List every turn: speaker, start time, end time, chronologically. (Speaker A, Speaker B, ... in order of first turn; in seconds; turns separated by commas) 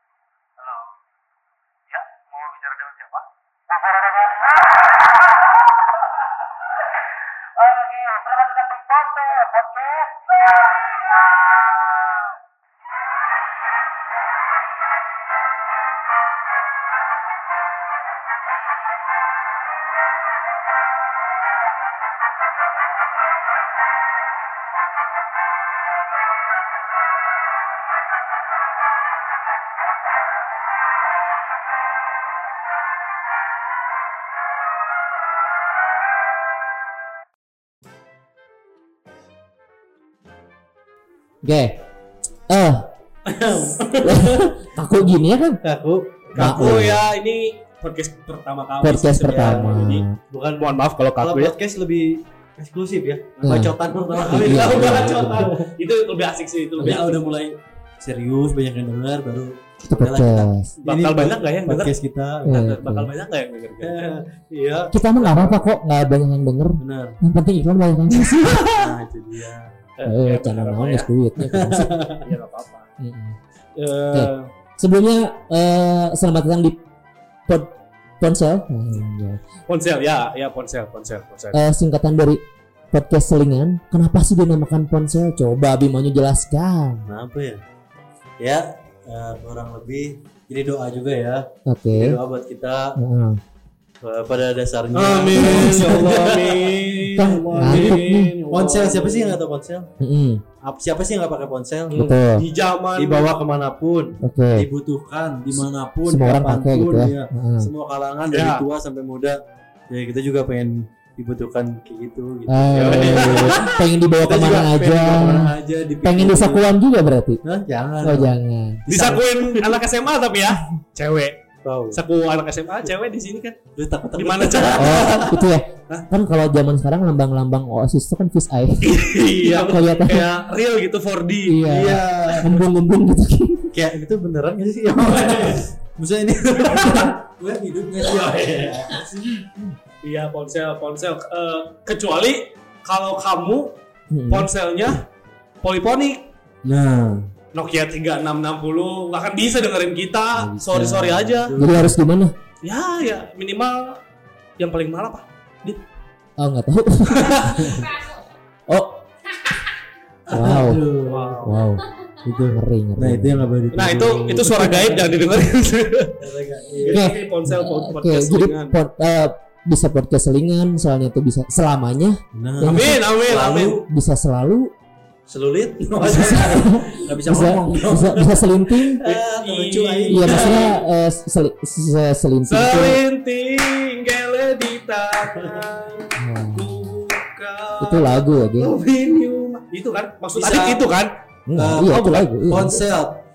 Speaker A: 0.6-0.9, Speaker A: 1.9-3.2, Speaker B: 41.4-41.8, Speaker B: 42.5-42.9, Speaker C: 43.3-44.5, Speaker B: 44.0-45.6, Speaker C: 45.6-46.9, Speaker A: 46.3-50.1, Speaker B: 46.4-47.0, Speaker B: 48.8-50.2, Speaker C: 49.3-55.6, Speaker A: 50.6-51.5, Speaker B: 53.4-55.5, Speaker A: 54.1-57.2, Speaker C: 56.8-62.6, Speaker B: 59.9-60.7, Speaker A: 60.8-64.2, Speaker B: 62.5-63.1, Speaker C: 63.8-65.7, Speaker B: 64.9-68.7, Speaker C: 66.8-67.2, Speaker C: 68.7-69.7, Speaker A: 70.0-71.1, Speaker B: 70.0-71.9, Speaker C: 71.4-72.3, Speaker A: 72.2-72.9, Speaker B: 73.0-73.4, Speaker A: 73.8-74.5, Speaker B: 74.1-76.8, Speaker B: 78.2-79.4, Speaker A: 79.7-81.6, Speaker B: 81.5-82.4, Speaker B: 82.9-87.0, Speaker C: 87.1-87.6, Speaker C: 88.4-93.0, Speaker B: 91.7-92.2, Speaker B: 93.0-93.4, Speaker C: 94.0-99.9, Speaker A: 94.9-99.4, Speaker B: 95.3-96.1, Speaker B: 97.1-98.4, Speaker B: 100.0-100.4, Speaker C: 100.6-102.1, Speaker A: 101.9-103.3, Speaker B: 101.9-102.5, Speaker C: 103.0-116.7, Speaker B: 104.2-104.7, Speaker B: 106.1-107.7, Speaker A: 108.3-108.7, Speaker B: 112.5-117.4, Speaker A: 112.7-113.8, Speaker C: 117.4-118.3, Speaker B: 118.0-118.8, Speaker C: 118.9-119.8, Speaker A: 118.9-123.6, Speaker C: 121.6-122.0, Speaker C: 123.8-125.5, Speaker A: 124.2-125.1, Speaker B: 124.8-130.3, Speaker A: 128.8-131.7, Speaker B: 131.5-133.7, Speaker C: 131.6-132.6, Speaker C: 133.7-139.5, Speaker A: 136.7-137.1, Speaker A: 140.0-143.7, Speaker B: 144.1-144.5, Speaker A: 144.3-145.0, Speaker A: 145.6-146.3, Speaker C: 146.6-147.2, Speaker A: 147.5-151.5, Speaker C: 150.3-152.0, Speaker B: 151.6-152.3, Speaker A: 152.6-154.0, Speaker A: 154.6-155.8, Speaker B: 156.4-158.2, Speaker B: 158.7-159.1, Speaker C: 160.3-161.7, Speaker B: 160.3-160.8, Speaker A: 161.1-161.6, Speaker B: 161.5-161.8, Speaker C: 162.2-165.2, Speaker B: 162.5-163.4, Speaker A: 163.7-166.2, Speaker C: 166.2-167.0, Speaker A: 166.8-168.8, Speaker B: 166.9-173.1, Speaker C: 172.3-173.9, Speaker A: 172.6-173.8, Speaker B: 173.8-174.7, Speaker C: 175.3-180.8, Speaker B: 176.0-179.0, Speaker A: 179.0-180.8, Speaker B: 180.1-183.0, Speaker A: 182.5-191.1, Speaker B: 186.2-186.7, Speaker B: 187.8-188.8, Speaker C: 190.3-190.9, Speaker B: 191.5-192.8, Speaker C: 191.6-193.2